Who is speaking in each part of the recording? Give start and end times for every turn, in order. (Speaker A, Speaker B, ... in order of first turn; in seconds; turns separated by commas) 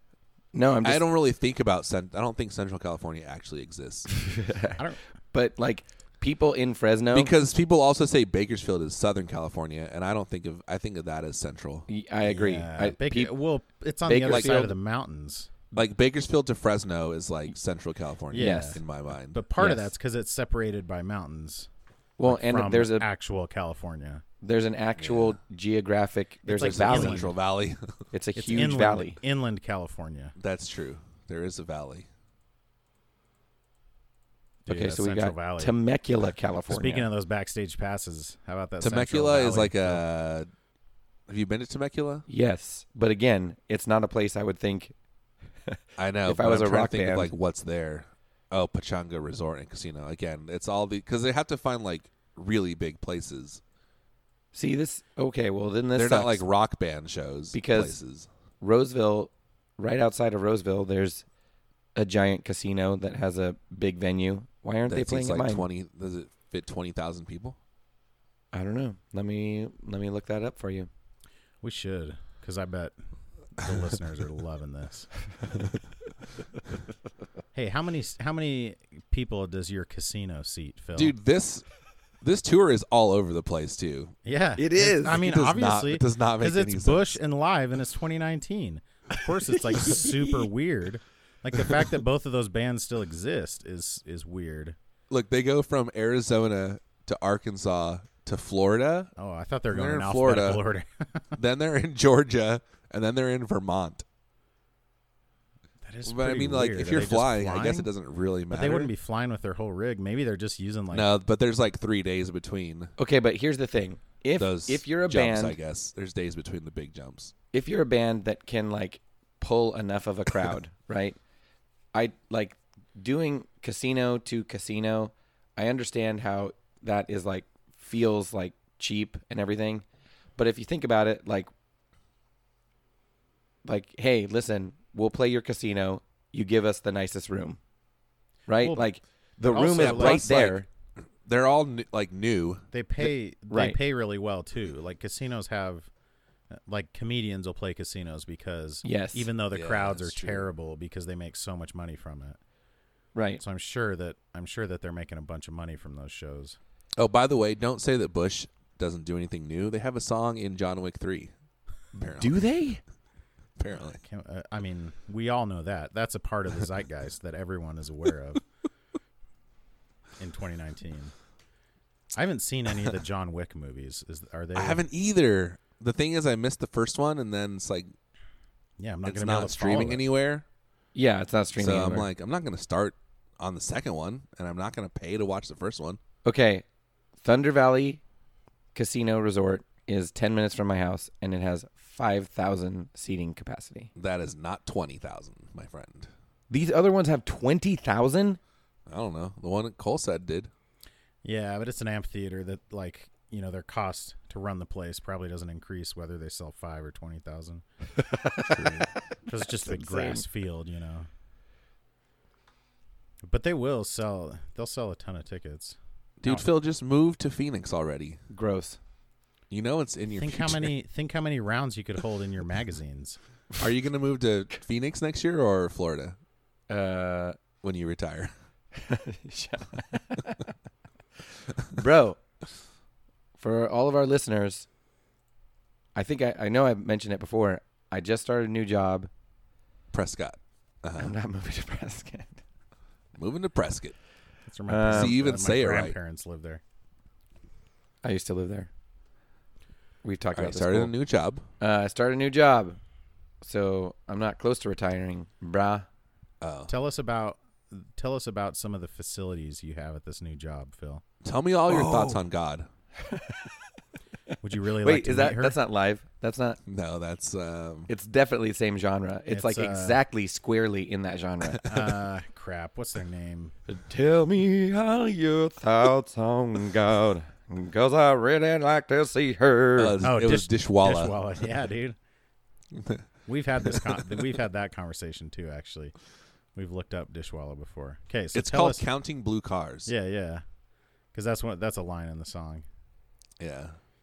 Speaker A: 0.5-1.0, Speaker B: 0.8-4.1, Speaker A: 4.1-7.3, Speaker B: 7.1-11.9, Speaker A: 11.9-13.3, Speaker C: 12.2-15.5, Speaker A: 14.0-14.7, Speaker B: 14.3-14.6, Speaker B: 15.7-19.4, Speaker C: 18.3-18.8, Speaker A: 18.3-18.8, Speaker C: 19.3-21.7, Speaker A: 19.6-19.9, Speaker A: 22.2-23.1, Speaker C: 22.2-24.2, Speaker A: 24.4-27.3, Speaker B: 25.0-25.4, Speaker C: 26.5-27.3, Speaker B: 26.6-27.9, Speaker A: 28.1-29.2, Speaker C: 28.4-30.3, Speaker B: 30.4-32.1, Speaker C: 34.6-35.8, Speaker A: 34.7-37.1, Speaker C: 36.7-40.0, Speaker B: 38.8-40.5, Speaker B: 41.3-42.2, Speaker A: 42.3-44.9, Speaker A: 45.6-47.3, Speaker B: 46.0-53.6, Speaker A: 54.5-56.4, Speaker B: 55.9-58.3, Speaker A: 57.5-58.0, Speaker A: 58.6-61.2, Speaker A: 61.9-65.6, Speaker B: 64.9-67.6, Speaker A: 68.5-70.9, Speaker C: 71.6-72.9, Speaker C: 73.6-75.1, Speaker C: 77.5-81.1, Speaker B: 80.9-81.6, Speaker B: 82.2-84.1, Speaker C: 84.2-94.8, Speaker A: 84.6-85.2, Speaker B: 85.1-87.2, Speaker A: 89.6-90.5, Speaker B: 95.1-99.1, Speaker C: 99.2-101.2, Speaker B: 99.7-100.6, Speaker B: 101.3-104.0, Speaker C: 105.8-107.9, Speaker B: 106.0-108.9, Speaker C: 108.5-111.1, Speaker B: 110.9-112.9, Speaker A: 113.0-115.6, Speaker B: 114.4-117.3, Speaker A: 117.5-121.2, Speaker A: 121.9-129.8, Speaker A: 130.4-131.5, Speaker A: 133.6-137.6, Speaker A: 138.5-140.7, Speaker C: 139.5-140.3, Speaker B: 139.7-140.6, Speaker B: 141.2-142.6, Speaker C: 142.7-145.9, Speaker A: 143.0-143.8, Speaker C: 146.5-152.4, Speaker A: 148.8-149.3, Speaker B: 149.5-150.5, Speaker A: 153.1-153.4, Speaker C: 153.4-156.6, Speaker B: 157.0-161.3, Speaker B: 161.9-162.4, Speaker A: 162.2-162.8, Speaker B: 163.6-164.0, Speaker C: 164.0-168.4, Speaker C: 170.2-171.1, Speaker C: 172.1-174.8, Speaker B: 174.5-177.9, Speaker C: 178.8-180.0, Speaker B: 179.0-180.4, Speaker A: 180.9-182.1, Speaker B: 181.6-186.0, Speaker A: 186.2-186.6, Speaker A: 187.2-188.0, Speaker A: 188.7-193.9, Speaker B: 193.9-196.1, Speaker A: 196.5-198.4, Speaker B: 198.9-200.5, Speaker C: 201.2-207.6, Speaker A: 208.1-208.6, Speaker B: 208.4-208.9, Speaker A: 209.2-210.2, Speaker C: 209.3-211.1, Speaker C: 213.2-216.4, Speaker B: 216.2-218.2, Speaker A: 218.3-218.8, Speaker B: 219.5-220.7, Speaker C: 220.1-223.2, Speaker B: 223.6-226.2, Speaker A: 226.7-227.4, Speaker B: 227.6-228.3, Speaker A: 228.7-230.5, Speaker A: 231.6-232.2, Speaker A: 233.4-234.7, Speaker A: 235.9-239.1, Speaker B: 239.9-241.1, Speaker A: 241.0-242.4, Speaker B: 243.2-243.9, Speaker C: 244.5-246.6, Speaker A: 244.7-245.2, Speaker B: 244.9-245.9, Speaker A: 248.0-248.7, Speaker A: 250.0-250.9, Speaker B: 250.3-251.4, Speaker A: 251.6-252.8, Speaker A: 253.4-255.8, Speaker B: 256.4-256.7, Speaker C: 256.7-261.0, Speaker B: 261.2-262.7, Speaker C: 261.7-262.2, Speaker A: 263.0-263.4, Speaker C: 264.4-265.6, Speaker A: 264.8-266.6, Speaker B: 266.7-267.9, Speaker A: 267.9-271.9, Speaker C: 269.3-270.0, Speaker C: 271.6-273.5, Speaker A: 273.7-280.0, Speaker B: 279.8-281.2, Speaker C: 280.0-282.0, Speaker B: 282.7-283.0, Speaker C: 283.3-285.9, Speaker B: 283.7-284.0, Speaker C: 286.5-288.8, Speaker B: 288.3-289.9, Speaker C: 289.9-290.4, Speaker C: 291.1-292.6, Speaker B: 293.4-293.8